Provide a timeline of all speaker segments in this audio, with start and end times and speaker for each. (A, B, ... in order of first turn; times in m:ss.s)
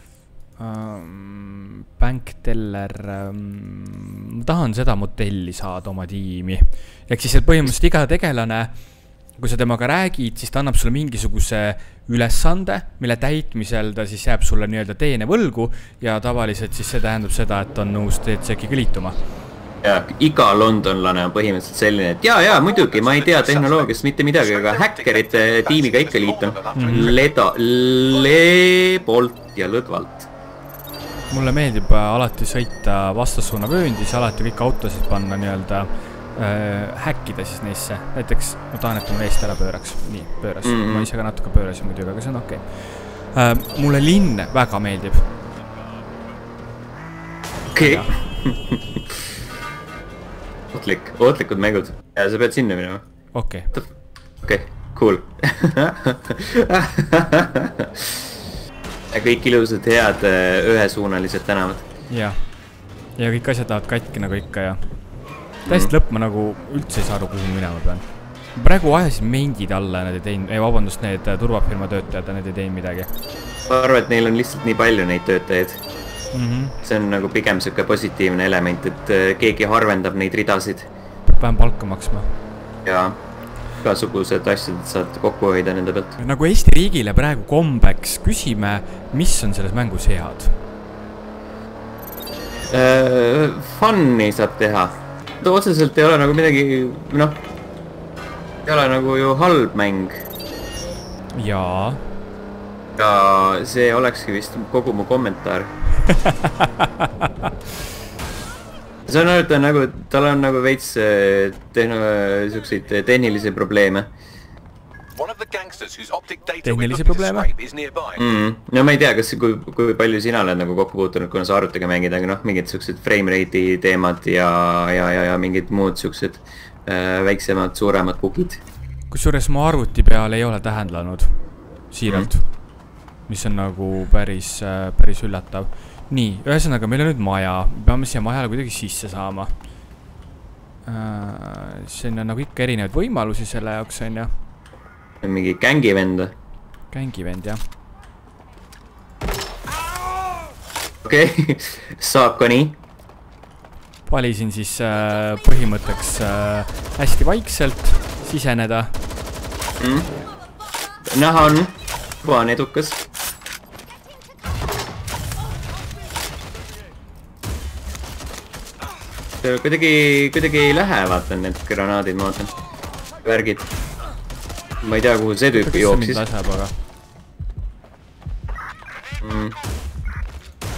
0:00.6-0:19.2 A
0:19.8-0:30.3 B
0:22.4-0:27.2 C
0:26.7-0:27.1 A
0:31.3-0:45.3 A
0:40.6-0:41.1 B
0:47.7-0:49.0 B
0:47.8-0:48.2 A
0:50.7-0:53.0 B
0:53.3-0:53.7 A
0:54.4-0:58.2 B
0:59.1-1:01.9 B
1:02.1-1:02.5 A
1:03.2-1:05.0 A
1:05.6-1:13.1 A
1:05.7-1:05.9 B
1:13.7-1:15.8 B
1:16.3-1:16.8 A
1:16.8-1:20.9 B
1:21.3-1:22.3 A
1:22.8-1:23.2 B
1:23.8-1:26.2 B
1:26.2-1:30.6 A
1:32.7-1:37.4 B
1:38.6-1:40.2 B
1:41.3-1:42.0 A
1:43.0-1:45.7 B
1:49.1-1:54.1 B
1:55.1-1:58.2 C
1:56.6-1:57.5 A
1:58.1-2:08.6 B
2:09.1-2:12.6 A
2:13.3-2:19.6 A
2:20.8-2:24.3 A
2:25.2-2:26.3 B
2:26.9-2:27.6 A
2:31.0-2:32.8 B
2:34.0-2:39.0 A
2:39.8-2:40.1 B
2:41.0-2:43.0 B
2:49.4-2:52.5 B
2:53.2-2:53.7 B
2:54.8-2:56.2 B
2:55.5-2:56.7 A
2:59.2-2:59.5 B